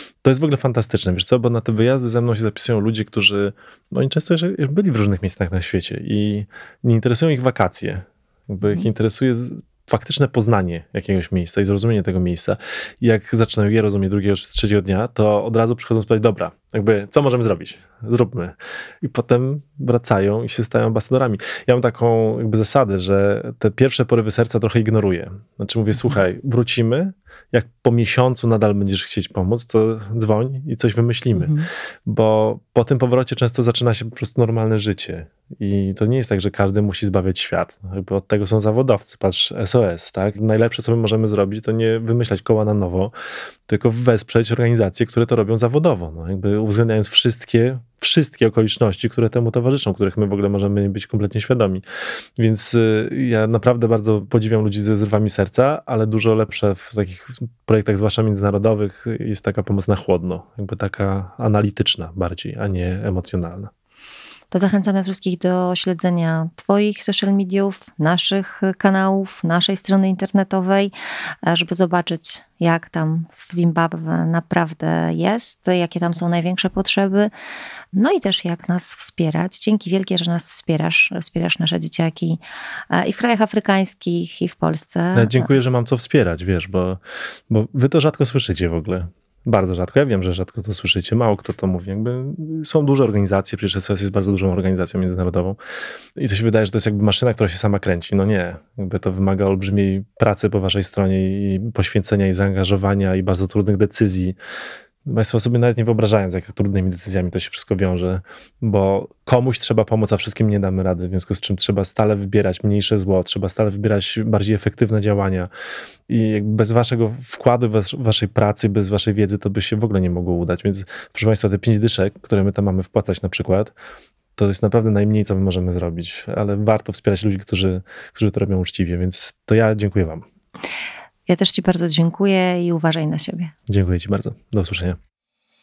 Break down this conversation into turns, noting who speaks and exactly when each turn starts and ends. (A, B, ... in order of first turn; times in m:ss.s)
0:00.2-0:31.5 A
0:31.3-0:31.7 B
0:32.1-0:43.1 A
0:43.7-0:51.8 A
0:52.4-1:03.7 A
1:04.5-1:10.9 B
1:11.4-1:17.3 B
1:17.9-1:25.5 B
1:25.2-1:35.6 A
1:36.2-1:44.4 A
1:45.0-1:55.5 A
1:56.1-2:03.8 A
2:04.4-2:10.2 A
2:11.3-2:13.5 B
2:13.7-2:15.0 A